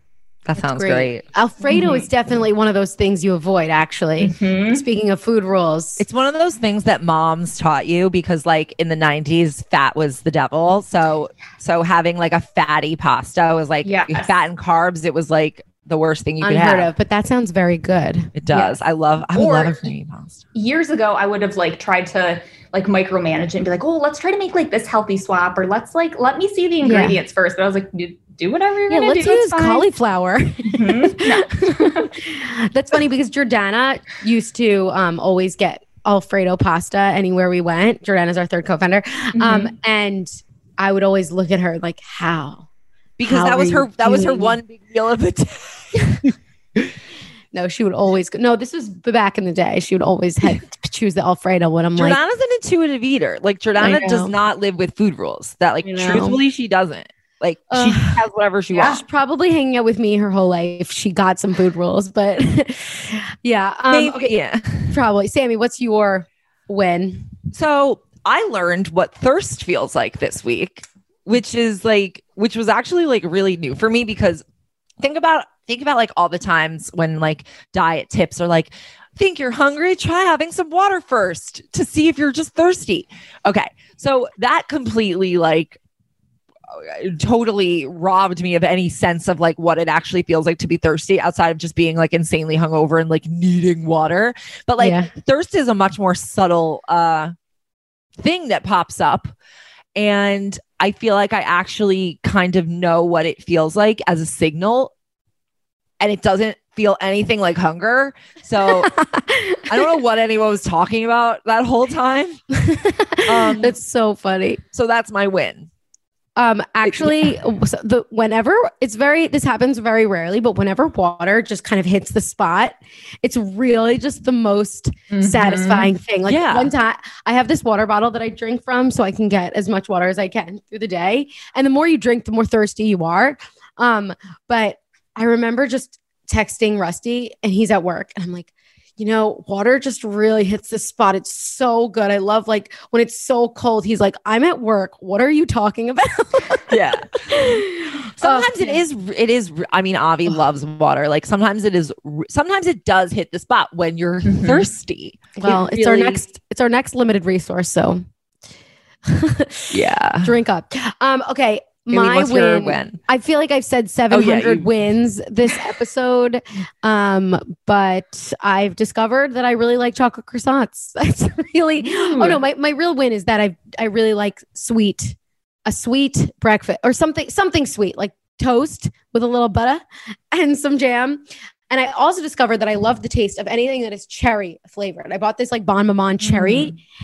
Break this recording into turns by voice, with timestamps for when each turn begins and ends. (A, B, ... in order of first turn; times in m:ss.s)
0:00.4-0:01.2 A
0:00.6-0:06.0 B
0:01.6-0:02.0 C
0:04.2-0:04.8 C
0:06.0-0:16.9 A
0:13.8-0:14.3 C
0:16.4-0:18.3 B
0:18.4-0:20.4 A
0:19.3-0:19.9 C
0:20.5-0:29.9 C
0:26.8-0:27.2 B
0:28.9-0:42.6 B
0:30.6-0:32.1 C
0:39.4-0:39.7 C
0:43.2-0:46.9 A
0:43.2-0:44.6 B
0:46.0-0:46.2 B
0:47.5-0:52.2 B
0:52.0-0:59.0 A
0:53.8-0:54.3 B
0:55.8-0:56.4 B
0:57.7-0:58.2 B
0:58.7-0:59.0 C
0:58.8-1:04.3 B
1:03.9-1:05.0 A
1:04.9-1:07.3 B
1:07.5-1:14.4 A
1:15.0-1:25.8 A
1:26.7-1:37.3 A
1:34.8-1:35.1 B
1:38.2-1:39.3 A
1:39.9-1:44.9 A
1:46.0-1:48.9 A
1:48.7-1:49.8 B
1:49.7-1:52.4 A
1:52.5-1:54.6 B
1:53.2-1:53.7 A
1:54.7-1:55.7 A
1:56.4-2:26.7 B
1:56.9-1:57.3 A
2:05.1-2:05.9 C
2:06.2-2:06.7 A
2:26.7-2:27.5 A
2:27.2-2:28.8 B
2:28.2-2:36.2 A
2:34.2-2:34.6 C
2:35.4-2:38.0 B
2:39.0-3:06.8 B
2:39.7-2:40.3 A
2:41.9-2:43.0 A
2:44.1-2:44.7 A